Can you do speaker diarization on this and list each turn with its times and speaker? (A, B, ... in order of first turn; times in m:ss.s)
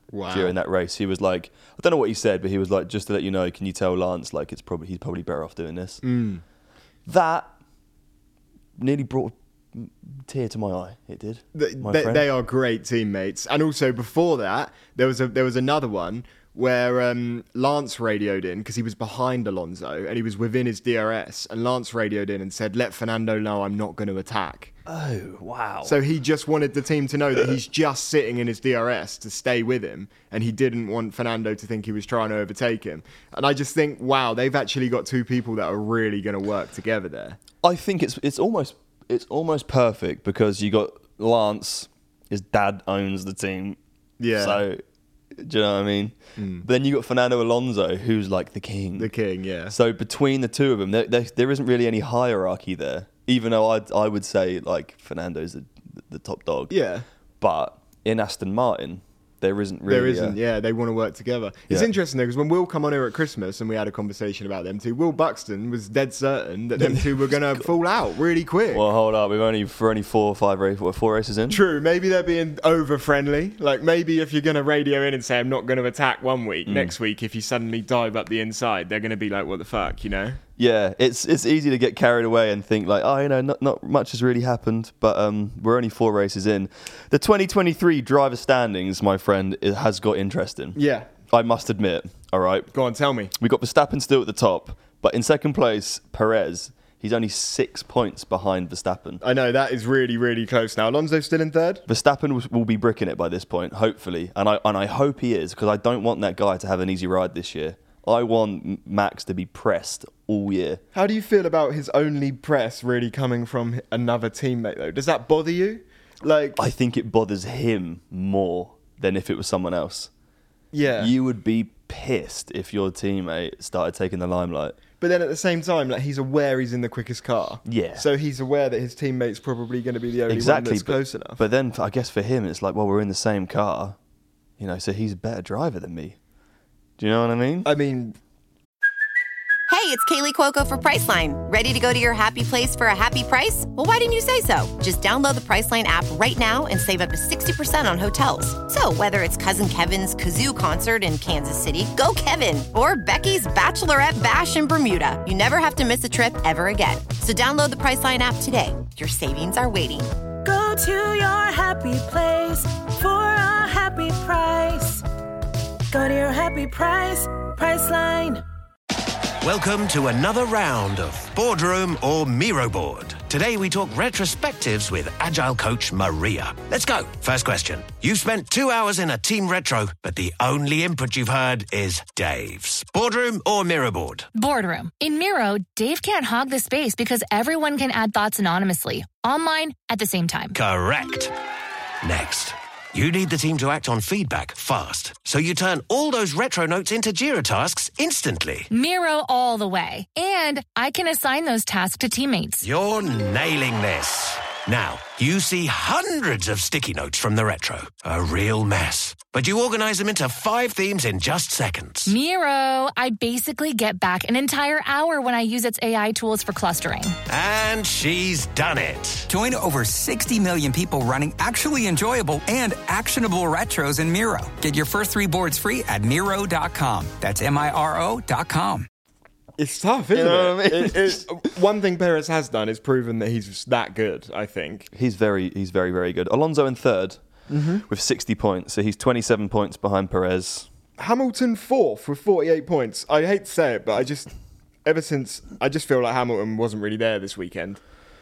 0:00.1-0:00.6 A
0:00.3-0:06.0 B
0:06.0-0:06.4 A
0:07.1-0:07.5 B
0:08.8-0:12.3 B
0:11.5-0:24.7 A
0:24.9-0:26.0 B
0:25.8-0:37.4 A
0:37.6-0:43.8 B
0:44.2-0:44.6 A
0:44.4-0:44.8 B
0:45.4-0:49.1 B
0:46.4-0:46.6 A
0:49.0-0:49.7 A
0:49.7-0:56.7 B
0:56.7-0:57.0 A
0:57.4-1:00.4 B
0:59.9-1:08.9 A
1:08.7-1:11.6 B
1:11.5-1:20.4 A
1:16.7-1:16.9 B
1:20.6-1:30.8 B
1:30.8-1:31.1 A
1:31.3-1:32.7 B
1:32.7-1:33.3 A
1:33.4-1:39.2 B
1:39.2-1:41.8 A
1:41.9-1:50.8 B
1:50.9-1:56.6 A
1:56.6-2:00.1 B
2:00.7-2:01.1 A
2:01.0-2:04.8 B
2:05.0-2:11.4 A
2:07.6-2:08.0 B
2:10.3-2:14.0 B
2:14.6-2:16.2 B
2:17.0-2:17.7 B
2:17.6-2:18.2 A
2:19.7-2:40.1 C
2:40.4-2:45.0 D
2:45.9-2:48.4 D
2:49.4-3:04.3 E
3:04.4-3:10.6 F
3:10.5-3:11.3 E
3:12.0-3:18.7 E
3:18.7-3:22.7 F
3:22.6-3:32.2 E
3:32.1-3:37.2 F
3:37.3-3:39.3 E
3:39.3-3:48.9 G
3:49.6-3:54.9 A
3:50.1-3:51.4 B
3:54.9-3:57.2 B
3:57.5-3:57.8 A
3:57.9-4:00.7 B
4:01.0-4:04.3 A
4:04.8-4:07.8 A